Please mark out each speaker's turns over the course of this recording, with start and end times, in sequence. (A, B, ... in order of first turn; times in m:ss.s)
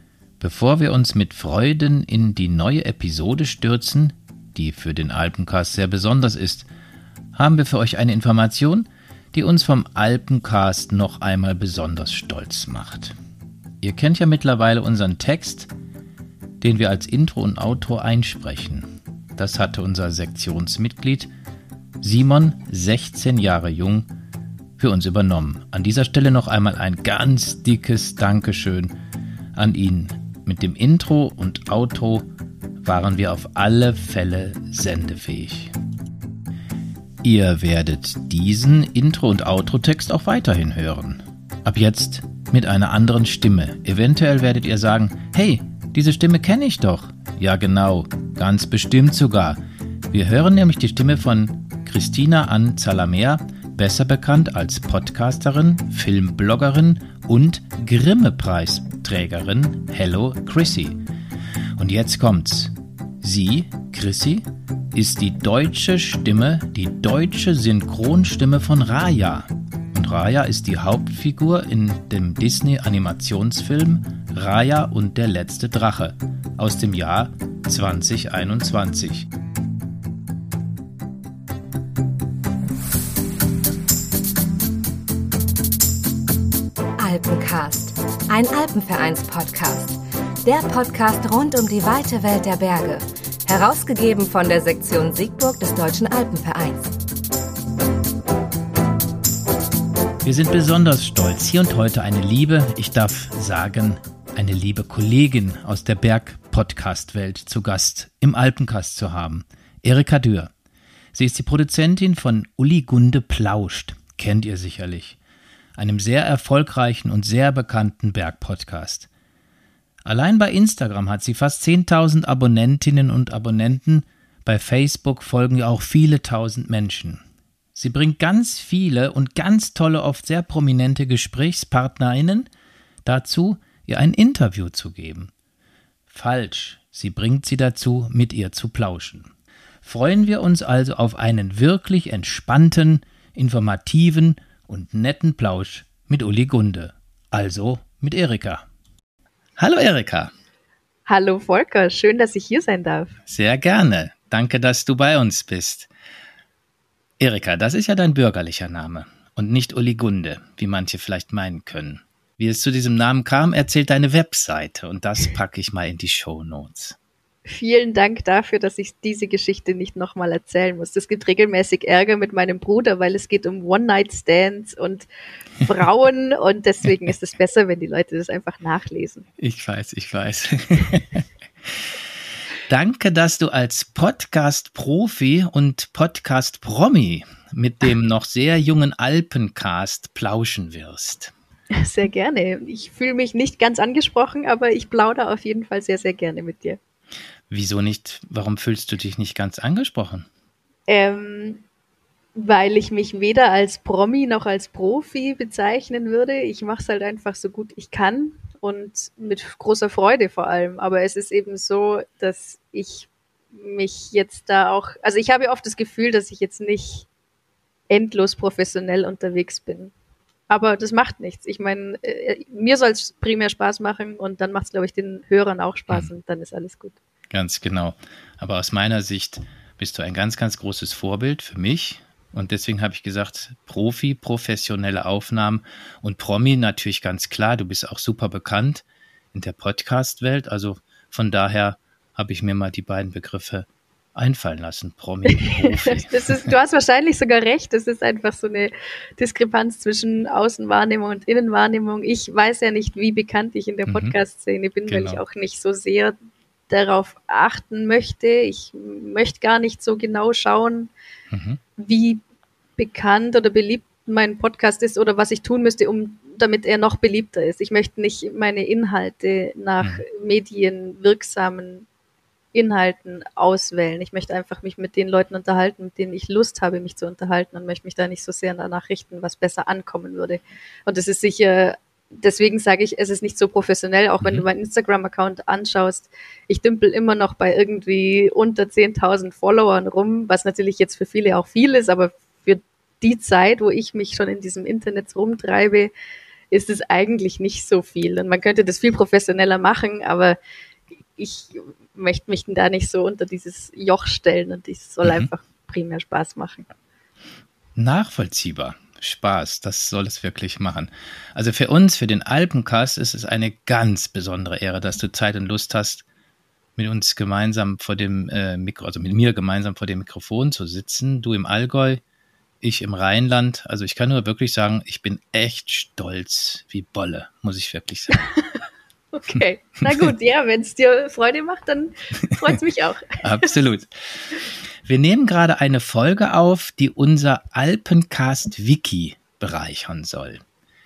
0:00.4-0:06.7 A
0:07.3-0:13.2 A
0:13.8-0:15.7 A
0:16.6-0:21.3 A
0:22.0-0:24.1 A
0:24.8-0:28.9 A
0:29.6-0:32.3 A
0:32.8-0:35.7 A
0:37.2-0:49.6 A
0:50.1-1:01.0 A
1:01.8-1:19.3 A
1:27.0-1:37.0 B
1:40.2-1:50.5 A
1:51.1-1:55.2 A
1:55.8-1:59.1 A
2:00.0-2:07.2 A
2:07.7-2:12.5 A
2:13.0-2:15.3 A
2:16.1-2:19.3 A
2:19.8-2:28.6 A
2:29.6-2:30.3 A
2:31.1-2:33.2 C
2:33.3-2:35.9 A
2:37.2-2:47.0 A
2:47.4-2:55.1 C
2:55.6-2:59.3 C
2:59.4-3:01.9 A
3:02.6-3:11.3 A
3:11.7-3:16.8 C
3:17.5-3:20.3 A
3:20.9-3:21.6 C
3:22.4-3:37.1 C
3:37.9-3:39.9 C
3:40.5-3:47.0 C
3:47.3-4:06.5 A
4:05.3-4:16.2 C
4:13.9-4:14.1 A
4:14.9-4:15.2 A
4:16.7-4:20.9 C
4:21.3-4:21.6 A
4:21.8-4:22.2 C
4:22.8-4:31.9 C
4:32.5-4:55.9 C
4:56.5-5:00.4 C
5:01.2-5:06.7 C
5:05.0-5:05.3 A
5:07.8-5:16.0 A
5:16.8-5:22.0 A
5:22.6-5:28.2 A
5:29.1-5:33.5 C
5:29.8-5:30.1 A
5:33.2-5:40.4 A